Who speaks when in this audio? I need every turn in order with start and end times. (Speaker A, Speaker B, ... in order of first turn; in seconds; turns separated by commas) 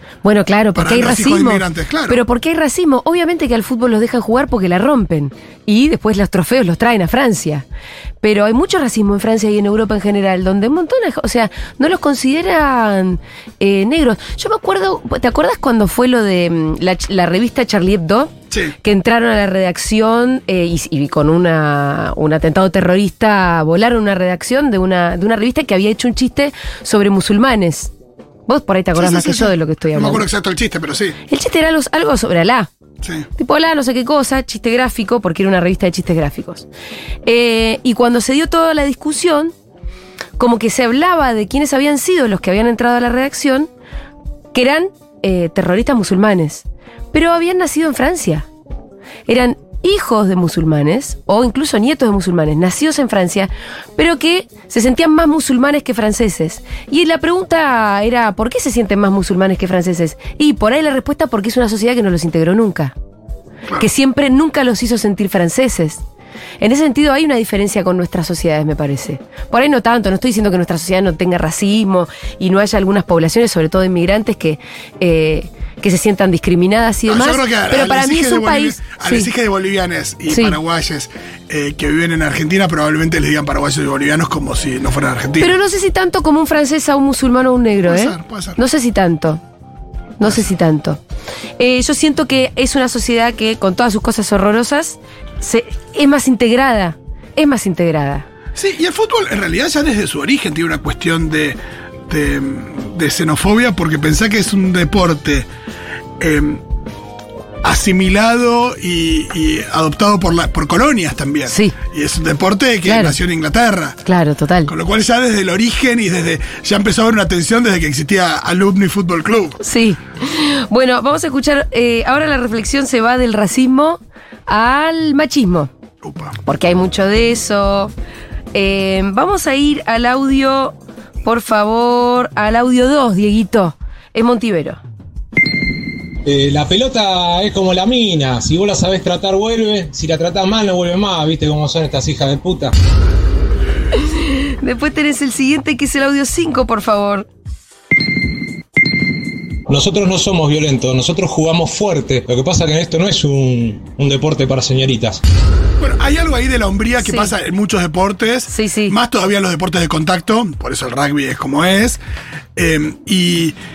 Speaker A: 0.2-7.6, Speaker B: 0.7-2.2, Speaker A: 8.2-27.9, Speaker A: 28.5-30.3, Speaker B: 28.9-31.2, Speaker A: 31.3-32.7, Speaker B: 33.0-33.3, Speaker A: 33.4-36.7, Speaker A: 37.2-39.5, Speaker A: 40.4-43.7, Speaker A: 44.5-48.5, Speaker A: 49.3-62.9, Speaker A: 63.8-66.0, Speaker A: 66.6-79.3, Speaker B: 77.1-85.5, Speaker A: 80.3-80.6, Speaker A: 85.4-89.4, Speaker B: 87.8-88.6, Speaker A: 90.2-91.0, Speaker B: 90.2-90.5, Speaker A: 91.6-98.2, Speaker B: 98.5-101.6, Speaker B: 102.1-105.5, Speaker B: 106.2-106.6, Speaker B: 107.6-114.0, Speaker A: 111.5-111.7, Speaker A: 112.8-113.2, Speaker A: 114.0-114.7, Speaker B: 114.7-119.6, Speaker A: 119.6-125.7, Speaker B: 126.0-126.3, Speaker A: 126.4-127.9, Speaker A: 128.5-134.8, Speaker C: 136.2-142.7, Speaker A: 144.0-147.3, Speaker C: 149.7-155.2, Speaker B: 155.8-162.0, Speaker A: 157.0-157.3, Speaker A: 158.5-158.9, Speaker B: 162.6-163.6